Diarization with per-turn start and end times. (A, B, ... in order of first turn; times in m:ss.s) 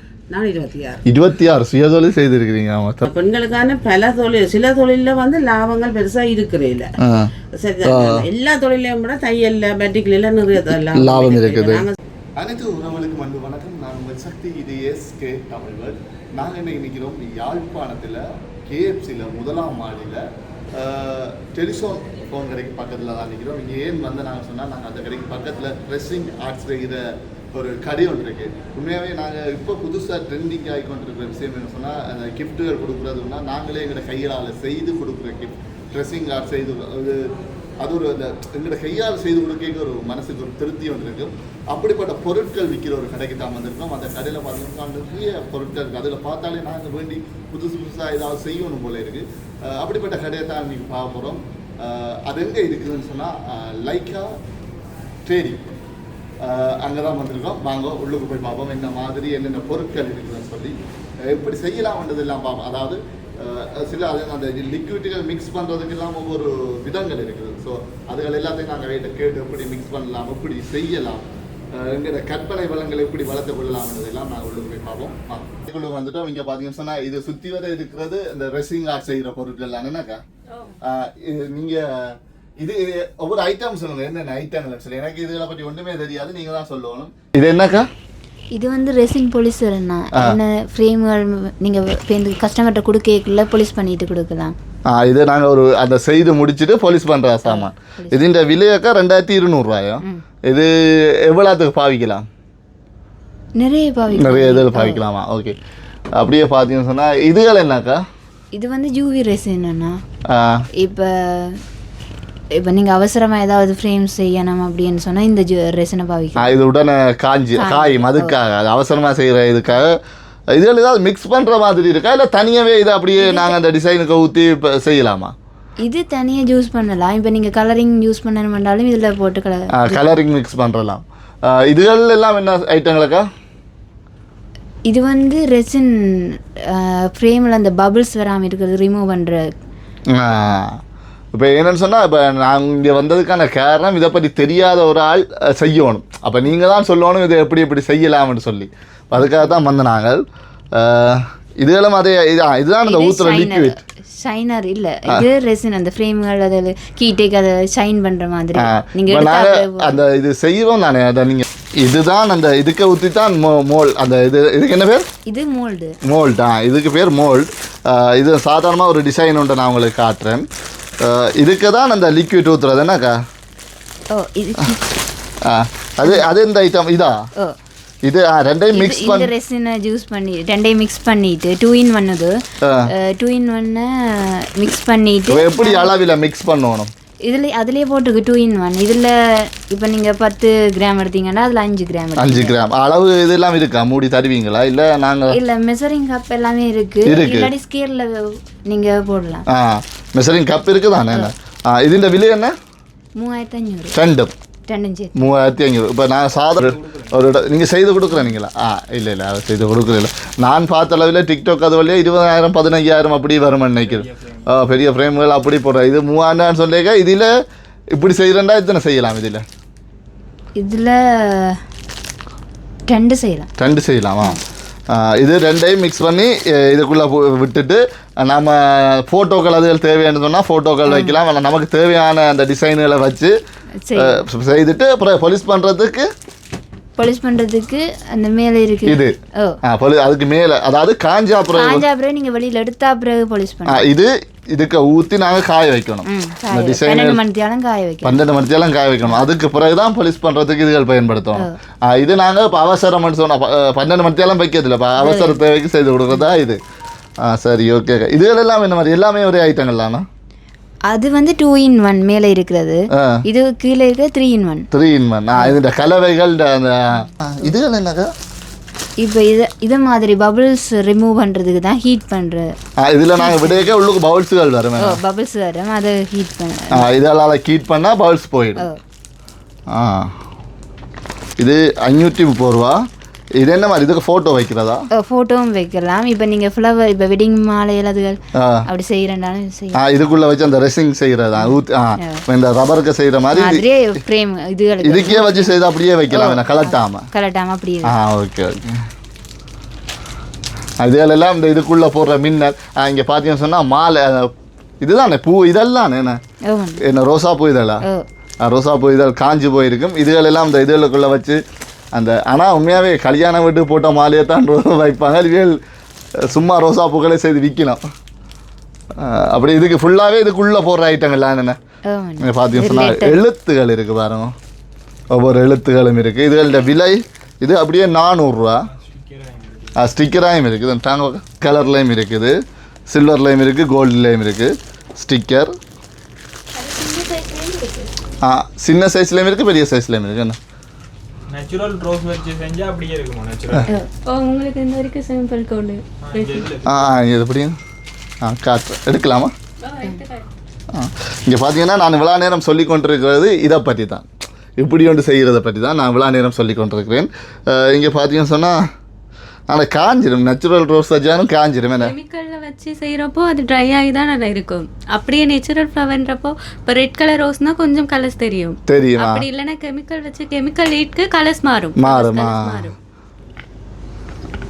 0:00.3-0:01.0 A
0:01.1-0:03.1 B
0:03.0-0:06.9 A
0:07.0-0:07.3 B
0:07.6-0:12.0 A
0:07.9-0:08.2 B
0:11.0-0:11.8 B
0:12.4-0:54.4 B
0:55.2-0:55.7 B
0:56.4-1:20.2 B
1:20.8-1:27.9 B
1:28.5-1:34.6 C
1:34.9-1:42.3 B
1:37.5-1:38.2 C
1:43.6-1:45.0 C
1:44.2-1:45.6 B
1:46.2-1:48.1 B
1:48.5-1:50.0 C
1:50.3-1:50.7 B
1:50.8-1:51.6 C
1:52.6-1:56.5 C
1:56.4-2:00.0 B
1:57.6-1:58.4 C
2:00.5-2:05.3 B
2:03.2-2:03.6 C
2:05.8-2:10.1 C
2:09.7-2:13.3 B
2:14.9-2:19.5 C
2:20.1-2:20.8 B
2:21.3-2:33.8 B
2:29.2-2:29.5 C
2:32.9-2:40.0 C
2:38.6-2:45.1 B
2:45.3-2:46.0 C
2:46.0-2:50.5 B
2:51.0-2:53.2 B
2:54.1-2:54.9 C
2:55.4-2:57.3 B
2:58.0-2:59.3 B
2:58.7-3:05.9 C
3:02.6-3:02.9 B
3:05.3-3:06.9 B
3:07.3-3:12.5 C
3:12.2-3:15.4 B
3:15.3-3:19.4 C
3:17.1-3:17.5 B
3:19.5-3:22.6 B
3:23.2-3:24.0 C
3:23.9-3:24.3 B
3:24.7-3:25.1 C
3:25.2-3:37.3 B
3:26.5-3:27.3 D
3:33.8-3:34.6 D
3:37.9-3:39.4 B
3:40.6-3:41.6 C
3:42.9-3:43.5 C
3:43.6-3:53.4 B
3:50.9-3:51.2 C
3:53.9-3:54.2 C
3:54.0-3:56.1 B
3:57.0-3:59.6 C
3:58.9-4:01.8 B
4:01.5-4:03.8 C
4:03.7-4:07.2 B
4:06.1-4:08.2 C
4:08.0-4:16.6 B
4:15.0-4:15.4 C
4:17.2-4:20.1 B
4:20.9-4:24.7 C
4:22.9-4:23.2 B
4:24.7-4:28.1 B
4:29.0-4:32.5 C
4:32.8-4:35.0 B
4:33.2-4:33.7 C
4:34.8-4:36.9 C
4:36.7-4:38.7 B
4:39.7-4:40.1 B
4:41.4-4:42.9 B
4:43.4-4:44.9 B
4:44.9-4:49.8 C
4:48.4-4:48.7 B
4:49.8-4:53.6 B
4:51.4-4:52.2 C
4:53.3-4:55.5 C
4:54.8-4:57.1 B
4:56.1-4:58.0 C
4:57.8-4:58.8 B
5:00.8-5:06.2 B
5:06.5-5:06.8 C
5:06.8-5:07.8 B
5:08.4-5:11.4 B
5:11.9-5:15.6 B
5:16.2-5:17.8 B
5:19.0-5:21.6 B
5:21.9-5:23.2 C
5:22.2-5:24.4 B
5:25.1-5:28.7 B
5:28.6-5:29.8 D
5:29.8-5:35.6 B
5:36.6-5:37.9 E
5:38.2-5:40.4 B
5:41.3-5:43.7 D
5:44.0-5:46.5 E
5:46.0-5:47.0 D
5:46.7-5:47.6 B
5:48.2-5:49.3 B
5:49.6-5:50.3 E
5:50.7-5:54.1 B
5:54.6-5:58.7 B
5:59.5-6:01.9 B
6:01.8-6:12.7 E
6:08.7-6:09.2 B
6:11.8-6:12.7 B